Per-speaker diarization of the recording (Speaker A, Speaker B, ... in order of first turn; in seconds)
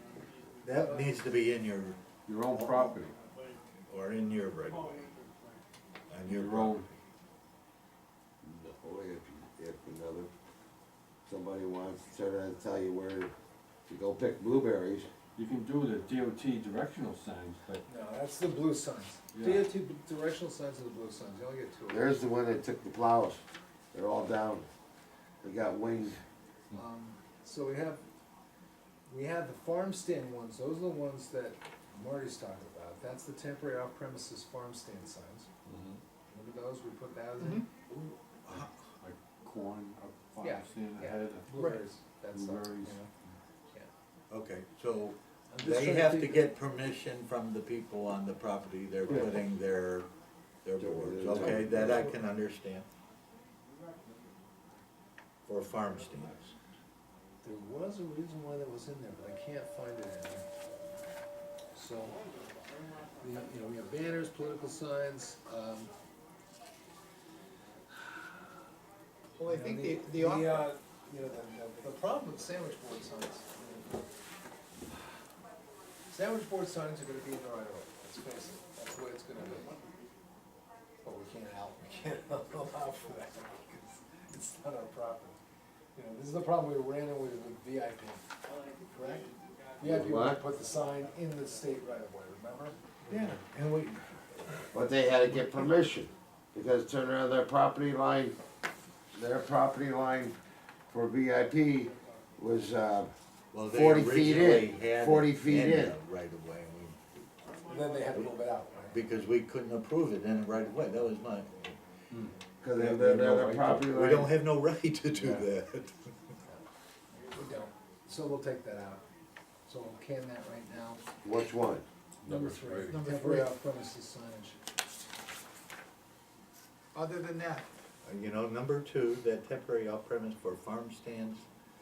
Speaker A: 0.6-2.0, 2.5-3.0, 3.9-5.1, 6.1-6.8, 44.3-50.1, 50.6-52.9, 55.5-56.5, 93.1-95.7, 103.5-107.0, 108.9-111.8, 112.7-116.1, 128.0-131.4
Speaker B: 2.3-3.1, 6.3-6.9, 15.4-17.8, 19.3-19.7, 35.7-36.0, 38.5-41.6, 42.3-43.0, 122.2-123.0
Speaker C: 8.4-10.3, 11.3-13.3, 13.9-15.1, 21.9-23.4, 23.9-24.6, 25.4-26.2, 50.8-52.1, 89.8-90.4, 94.7-98.3, 99.1-100.3, 100.9-103.1, 103.7-106.0, 112.6-114.3, 121.2-121.8
Speaker D: 17.9-22.1, 26.7-28.0, 29.1-35.5, 36.3-37.7, 40.4-43.1, 45.5-46.6, 57.4-60.4, 61.7-62.2, 63.2-65.9, 69.5-74.0, 76.1-79.7, 81.0-85.4, 85.9-88.2, 88.9-89.2, 89.8-92.7, 107.7-109.0, 117.2-119.0, 119.7-121.0, 122.2-124.6
Speaker E: 37.4-37.7, 41.5-41.8, 69.3-70.7, 122.9-123.5, 127.0-127.7